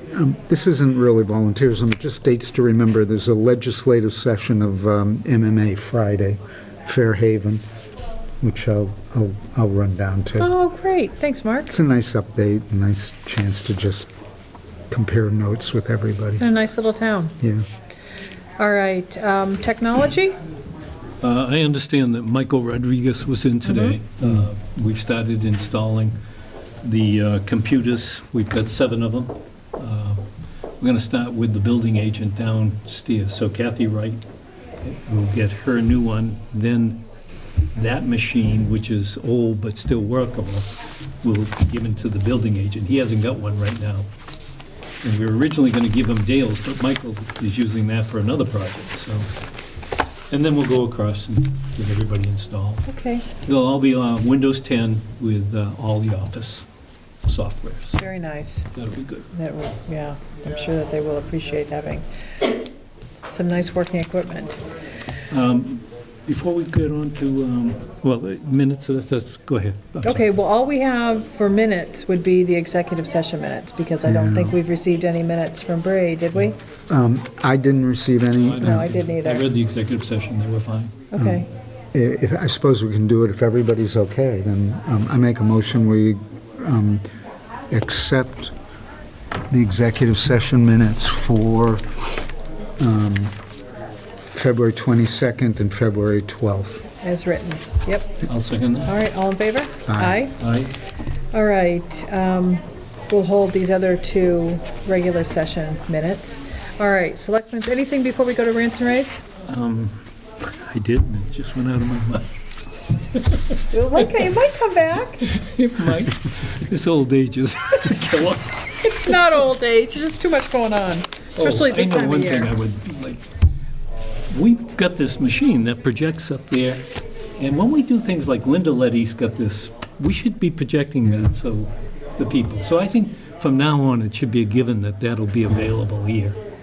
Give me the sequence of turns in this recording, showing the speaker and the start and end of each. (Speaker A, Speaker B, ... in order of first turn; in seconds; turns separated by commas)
Speaker A: 0.1-7.6, Speaker A: 8.4-10.5, Speaker B: 10.4-11.7, Speaker A: 11.7-14.1, Speaker A: 14.9-16.4, Speaker B: 16.4-17.3, Speaker B: 18.6-20.4, Speaker C: 21.2-26.2, Speaker C: 26.8-30.2, Speaker C: 30.8-34.2, Speaker C: 34.8-37.0, Speaker C: 37.7-44.1, Speaker C: 45.0-49.3, Speaker C: 50.3-56.6, Speaker B: 52.9-53.3, Speaker C: 57.2-58.1, Speaker B: 58.0-58.7, Speaker C: 58.7-59.3, Speaker B: 59.3-62.0, Speaker B: 63.2-64.6, Speaker C: 65.3-70.2, Speaker B: 70.0-76.6, Speaker A: 74.0-74.5, Speaker A: 76.9-78.9, Speaker C: 78.4-81.0, Speaker B: 78.6-79.5, Speaker B: 81.1-81.5, Speaker A: 81.1-87.0, Speaker A: 87.7-88.5, Speaker A: 89.5-92.2, Speaker A: 92.8-93.3, Speaker A: 94.3-96.8, Speaker B: 97.0-98.2, Speaker C: 98.3-98.9, Speaker B: 98.8-100.4, Speaker A: 99.8-100.3, Speaker C: 100.4-100.7, Speaker B: 101.3-109.2, Speaker C: 109.5-112.3, Speaker C: 113.1-114.5, Speaker B: 113.7-115.3, Speaker C: 115.2-119.2, Speaker B: 118.8-122.5, Speaker C: 121.3-123.2, Speaker C: 124.3-126.8, Speaker C: 127.4-136.4